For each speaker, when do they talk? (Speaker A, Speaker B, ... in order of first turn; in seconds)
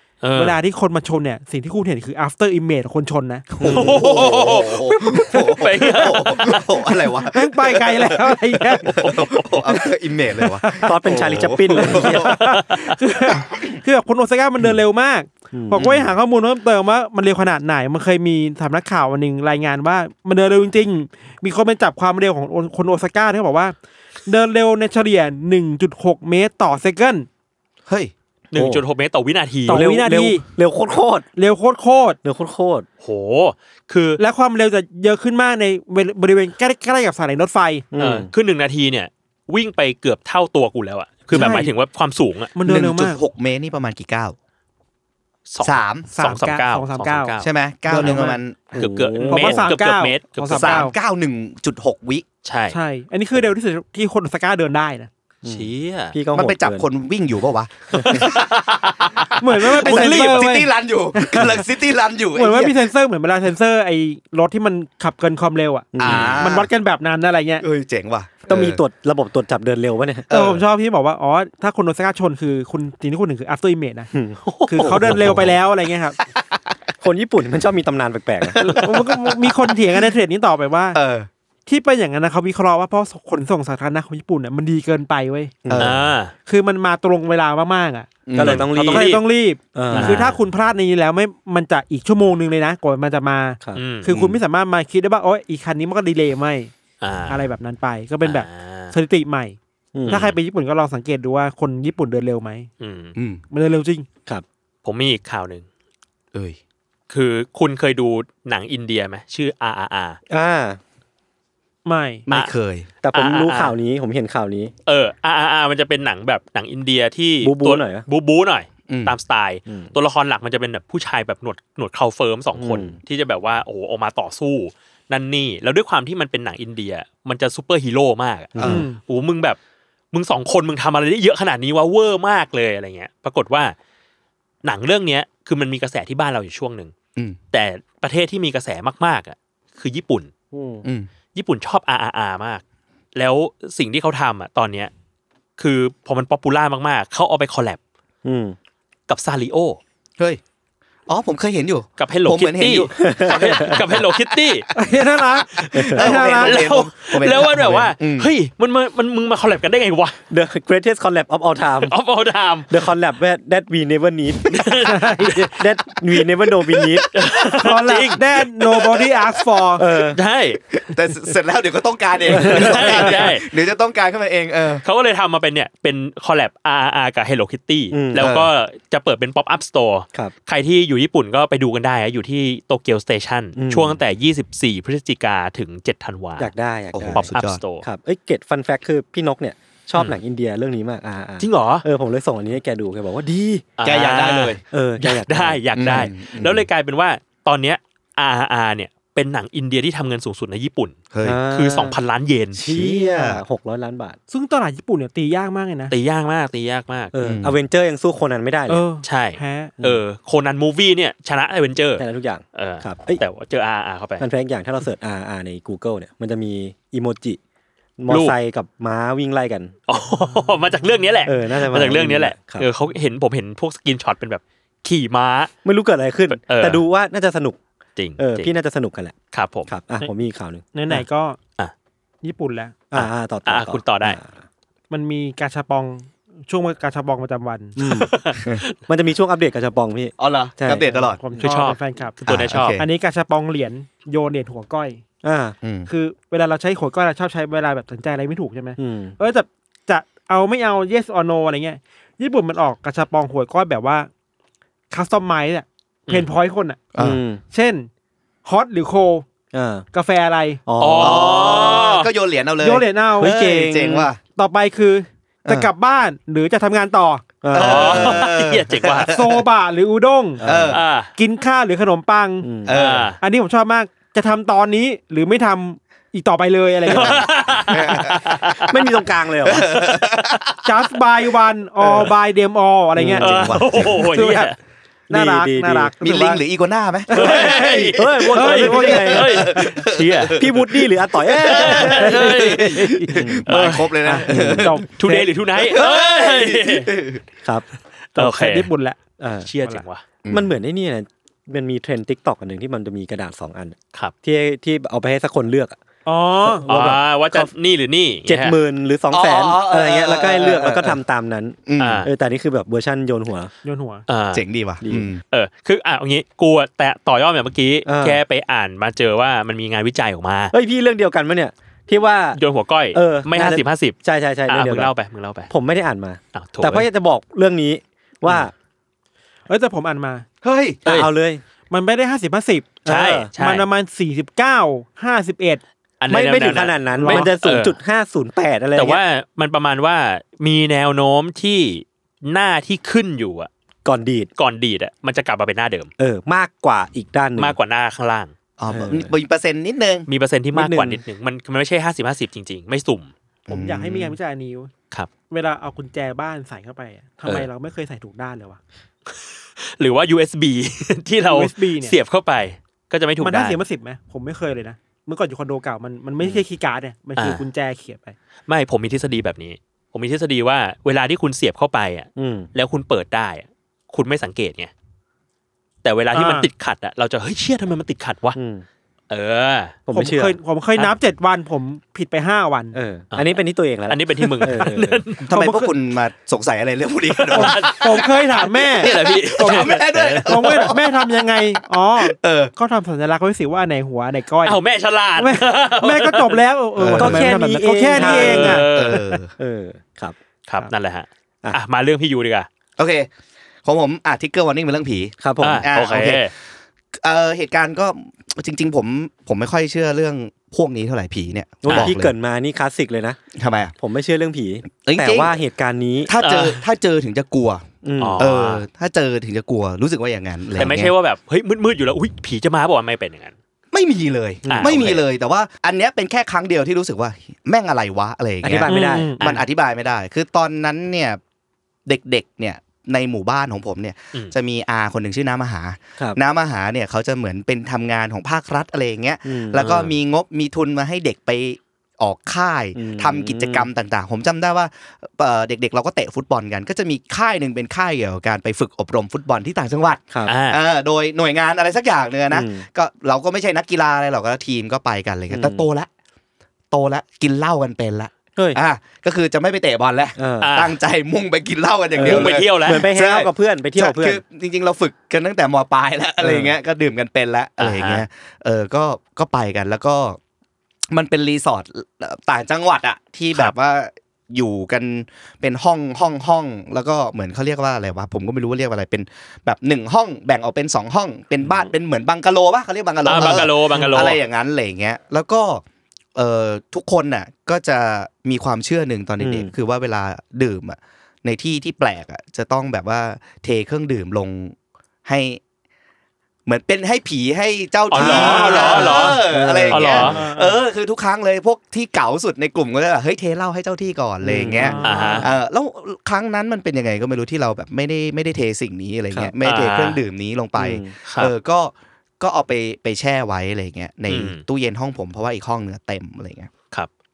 Speaker A: 0.2-0.6, 3.6-6.9, 8.8-9.7, 11.9-12.9, 28.5-29.9, 33.0-34.2, 38.0-42.5, 45.5-48.2, 48.7-50.9, 52.4-52.8, 55.4-56.1, 58.0-60.5, 66.0-66.4, 74.4-75.0, 85.8-86.3, 88.4-89.2, 89.9-90.3, 93.7-94.1, 97.0-97.5, 98.2-98.9, 100.1-100.4, 102.8-103.1, 104.8-105.7, 107.1-110.2, 113.1-113.7, 114.8-129.6, 130.1-133.7, 134.6-136.9, 137.5-140.3, 141.3-142.6, 143.1-144.9, 145.6-147.8, 149.1-149.8, 152.0-154.7, 156.0-160.2, 161.8-162.8, 164.5-169.2, 170.0-170.6, 172.3-173.5, 174.8-186.5, 187.1-187.8, 191.4-191.8, 193.8-201.0, 201.5-202.6, 205.9-207.1, 209.0-214.2, 218.1-218.3, 219.9-225.5, 226.3-226.8, 228.0-228.5, 229.3-229.7, 232.9-234.2, 237.8-238.7, 241.4-242.8, 260.8-262.1, 267.5-269.1, 270.7-271.1, 272.7-273.2, 276.9-280.4, 283.2-284.5, 287.1-290.6, 291.4-294.0, 295.0-296.9, 298.1-298.7, 299.4-300.0, 306.7-308.6, 311.8-312.1, 314.1-314.4, 315.3-320.5, 322.3-325.5, 326.3-326.9, 332.9-333.7, 336.0-337.8, 338.7-343.5, 344.4-345.9, 347.4-348.3, 350.1-353.1, 359.1-363.6, 367.2-367.4, 368.5-374.7, 375.8-378.4, 379.1-379.8, 383.1-383.4, 383.9-385.3, 387.1-390.7, 394.4-396.4, 398.0-399.1, 400.5-402.5, 405.4-406.3, 411.7-411.9, 416.2-416.6, 418.0-418.6, 420.5-423.3, 424.5-425.1, 439.5-439.9, 450.2-450.6, 460.4-460.8, 462.0-462.9, 467.6-468.0, 483.0-484.2, 497.9-500.2, 504.8-505.3, 509.4-510.0, 511.0-511.3, 514.1-514.4
Speaker B: 0.3-3.5, 7.2-9.1, 10.4-11.0, 11.7-23.7, 24.2-27.3, 29.7-30.4, 31.4-32.2, 34.2-37.9, 41.3-41.7, 42.5-43.2, 46.1-47.3, 47.9-48.4, 49.2-50.9, 52.7-55.1, 59.4-61.6, 62.3-67.6, 70.3-74.1, 74.7-76.2, 78.8-81.0, 81.7-85.6, 86.5-88.1, 88.7-96.7, 97.3-102.7, 103.5-104.1, 111.8-112.3, 128.6-129.0, 154.7-156.7, 164.8-165.5, 167.6-169.8, 204.3-205.9, 208.7-209.7, 230.7-231.4, 232.2-232.8, 234.9-237.8, 240.8-242.2, 242.8-245.0, 245.9-254.1, 254.9-256.8, 257.5-257.9, 258.4-259.2, 259.9-260.6, 262.6-263.4, 264.3-267.2, 269.1-270.4, 271.1-272.5, 273.2-277.3, 280.6-284.5, 285.1-286.4, 287.1-289.2, 294.0-295.3, 298.1-299.0, 306.1-306.7, 313.6-314.1, 329.5-330.2, 331.7-332.8, 333.4-335.6, 336.9-337.3, 353.5-354.7, 355.3-358.6, 361.2-361.9, 363.2-368.1, 376.1-376.5, 379.9-382.8, 385.3-385.7, 387.3-394.6, 395.2-398.7, 428.6-429.2, 498.0-499.0, 500.0-500.6, 504.6-505.3
Speaker C: 3.5-12.4, 13.3-13.7, 15.7-16.1, 27.9-28.1, 42.6-44.4, 45.6-46.1, 47.4-48.7, 50.5-52.2, 56.3-62.8, 66.0-66.7, 67.6-68.8, 70.3-70.6, 75.0-75.4, 78.5-79.5, 80.9-81.3, 85.7-86.0, 88.2-88.7, 94.1-94.4, 103.2-103.4, 112.3-112.9, 118.9-119.1, 128.6-128.8, 140.8-141.1, 151.1-154.6, 155.9-158.3, 170.7-174.8, 178.2-178.5, 186.9-187.6, 193.8-194.6, 195.7-196.7, 201.1-201.4, 202.6-203.4, 207.2-207.6, 240.2-241.2, 242.2-242.8, 245.6-245.9, 256.9-257.2, 261.0-264.2, 267.5-269.4, 270.4-270.8, 272.6-273.1, 277.7-278.3, 279.4-280.6, 283.2-284.0, 286.0-287.9, 288.7-294.8, 295.6-297.2, 300.2-300.5, 309.1-311.0, 311.7-312.1, 314.3-315.2, 330.4-330.8, 348.6-350.1, 353.5-354.2, 385.3-391.2, 392.0-392.5, 396.8-397.3, 398.7-399.3, 402.8-403.1, 403.6-406.3, 407.0-412.1, 413.4-413.7, 414.8-415.4, 416.1-417.7, 418.2-420.9, 423.7-431.2, 431.9-455.9, 456.7-470.2, 470.9-485.6, 486.1-495.4, 496.4-516.5
Speaker D: 3.6-4.0, 10.8-12.3, 15.5-15.9, 28.5-28.8, 29.7-31.2, 32.2-32.9, 37.9-38.3, 48.7-49.7, 55.4-56.9, 57.9-58.2, 65.9-66.4, 68.5-70.3, 74.1-75.5, 77.0-78.6, 85.6-85.9, 88.3-89.2, 89.7-90.3, 99.9-100.2, 110.3-110.8, 113.0-114.7, 117.4-118.0, 119.7-119.9, 122.6-123.0, 128.5-128.8, 140.5-140.8, 148.2-148.6, 153.0-153.8, 155.7-156.0, 160.3-161.9, 162.7-164.7, 165.3-167.1, 169.8-170.2, 172.3-173.1, 177.9-178.3, 183.6-184.0, 186.4-187.3, 187.8-193.6, 194.7-195.6, 201.2-202.0, 202.5-204.2, 207.1-208.8, 212.0-213.2, 214.2-217.4, 218.0-219.7, 221.2-222.7, 225.6-227.6, 228.2-229.1, 229.7-231.0, 232.9-234.4, 237.8-238.1, 238.8-241.4, 245.2-245.6, 248.8-249.1, 257.0-257.4, 259.5-259.9, 260.6-261.8, 263.2-264.1, 267.4-268.3, 270.4-270.8, 272.4-272.8, 278.5-279.7, 282.9-283.3, 285.1-285.9, 287.1-289.7, 290.3-293.4, 294.2-294.7, 299.2-299.5, 300.3-305.8, 306.4-307.5, 308.3-313.5, 314.8-315.1, 317.9-318.2, 320.5-322.4, 322.9-324.9, 325.5-328.5, 330.9-331.4, 332.8-333.3, 336.1-339.0, 343.8-344.3, 346.0-347.6, 348.7-349.1, 350.5-351.0, 372.2-372.5, 378.3-378.6, 379.9-380.4, 382.7-385.0, 396.9-398.7, 399.4-400.1, 405.2-405.7, 411.6-413.2, 413.8-416.1, 417.8-418.3, 424.4-424.8, 428.4-429.2, 439.2-439.8, 442.7-443.7, 452.3-452.6, 455.3-455.7, 460.2-460.5, 461.9-464.2, 466.2-466.5, 483.1-484.1, 489.2-489.5, 497.9-500.2, 504.2-504.8, 510.6-510.9